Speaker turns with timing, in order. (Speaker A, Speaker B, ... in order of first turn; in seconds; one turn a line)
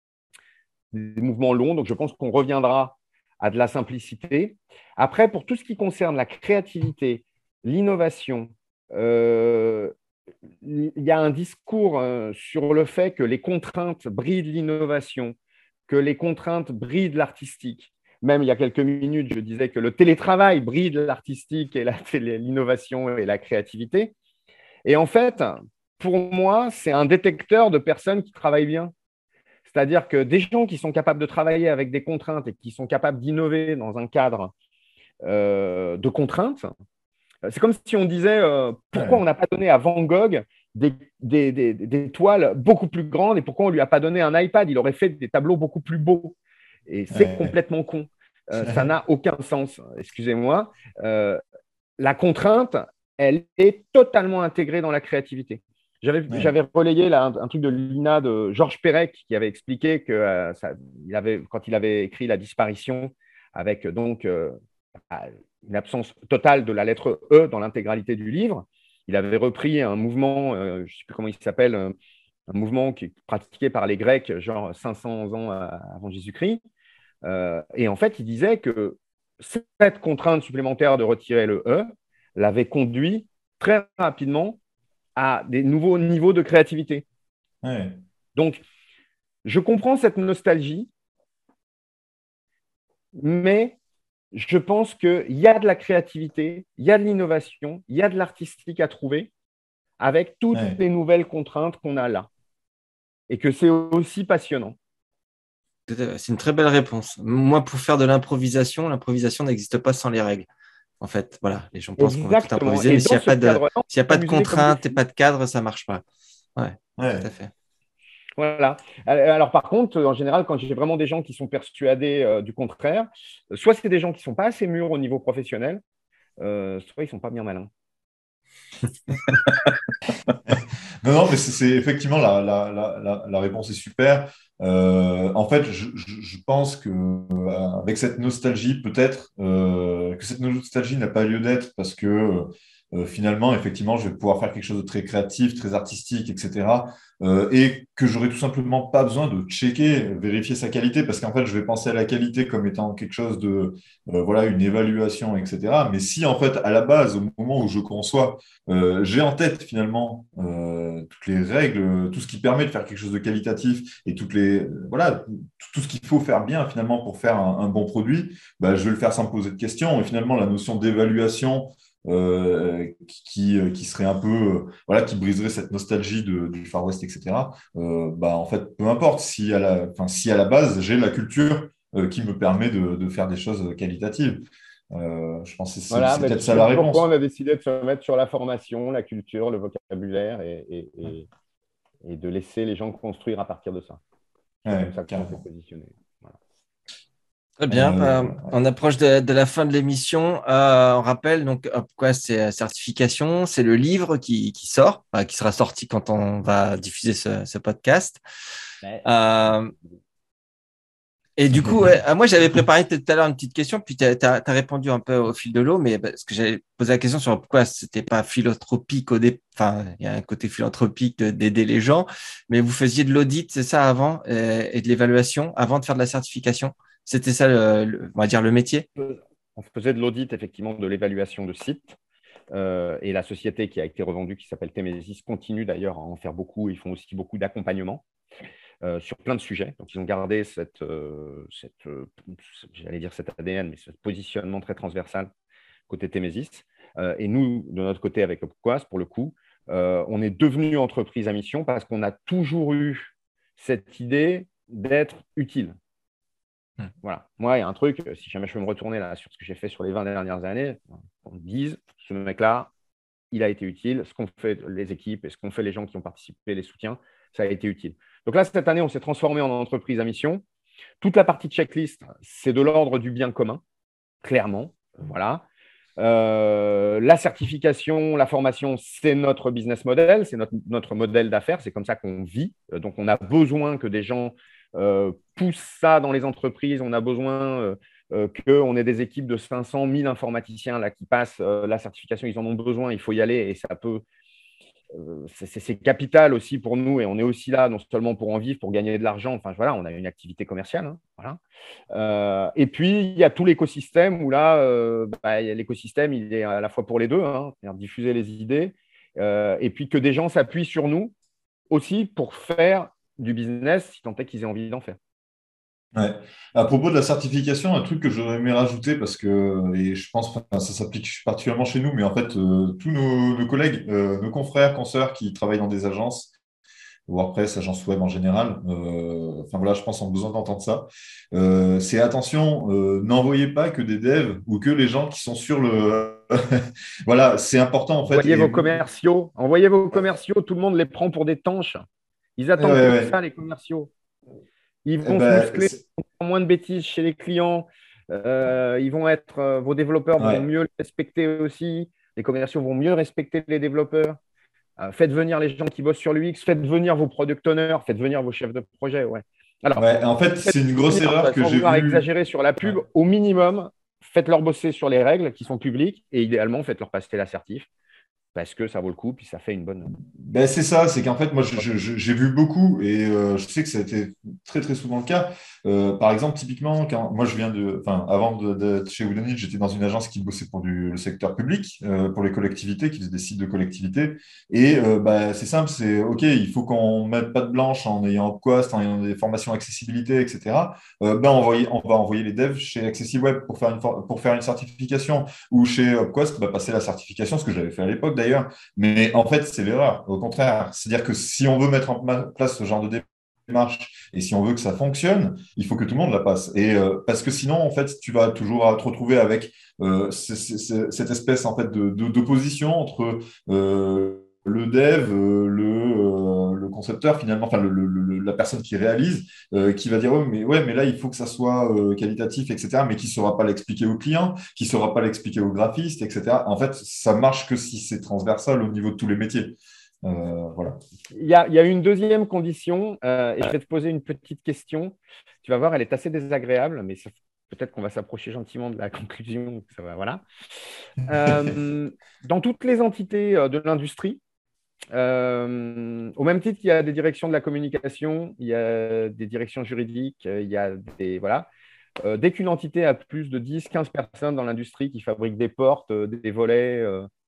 Speaker A: 0.9-9.9
Speaker A: 10.6-15.3
Speaker A: 15.9-24.1
Speaker A: 24.8-28.9
Speaker A: 29.6-34.5
Speaker A: 35.2-36.7
Speaker A: 37.4-46.4
Speaker B: 38.9-39.2
Speaker A: 46.9-51.4
Speaker B: 47.1-47.5
Speaker B: 48.6-48.9
Speaker A: 52.0-64.5
Speaker A: 65.1-71.9
Speaker A: 72.5-76.6
Speaker A: 77.2-84.6
Speaker A: 85.2-87.0
Speaker B: 87.6-88.0
Speaker A: 88.3-88.6
Speaker A: 89.4-90.9
Speaker A: 93.1-93.8
Speaker A: 94.3-99.3
Speaker A: 100.0-102.3
Speaker B: 100.5-100.8
Speaker A: 103.3-104.8
Speaker C: 105.9-110.5
Speaker C: 111.0-116.0
Speaker A: 112.0-115.0
Speaker C: 116.5-117.5
Speaker B: 117.0-117.3
Speaker A: 118.4-125.8
Speaker A: 126.4-127.7
Speaker B: 130.5-187.1
Speaker A: 185.9-191.3
Speaker A: 192.0-194.0
Speaker B: 194.6-195.4
Speaker A: 194.6-196.4
Speaker C: 197.6-208.2
Speaker B: 197.7-198.5
Speaker A: 208.8-209.8
Speaker C: 209.0-209.7
Speaker C: 211.4-228.8
Speaker B: 211.5-211.9
Speaker A: 229.0-231.9
Speaker A: 232.5-238.0
Speaker A: 238.8-245.3
Speaker A: 245.9-255.8
Speaker A: 257.0-262.7
Speaker A: 263.3-270.4
Speaker A: 271.0-273.6
Speaker A: 274.2-275.4
Speaker A: 276.0-294.0
Speaker A: 294.9-301.4
Speaker A: 301.9-311.1
Speaker A: 311.7-315.0
Speaker B: 315.9-326.3
Speaker B: 327.1-338.7
Speaker A: 338.1-341.8
Speaker A: 342.4-343.9
Speaker B: 342.6-343.1
Speaker A: 344.8-354.2
Speaker B: 345.0-345.8
Speaker B: 350.2-350.4
Speaker A: 354.8-367.7
Speaker B: 359.8-362.1
Speaker A: 368.3-370.0
Speaker B: 370.1-430.8
Speaker A: 431.1-440.2
Speaker A: 441.0-444.2
Speaker A: 444.9-451.5
Speaker A: 452.0-457.1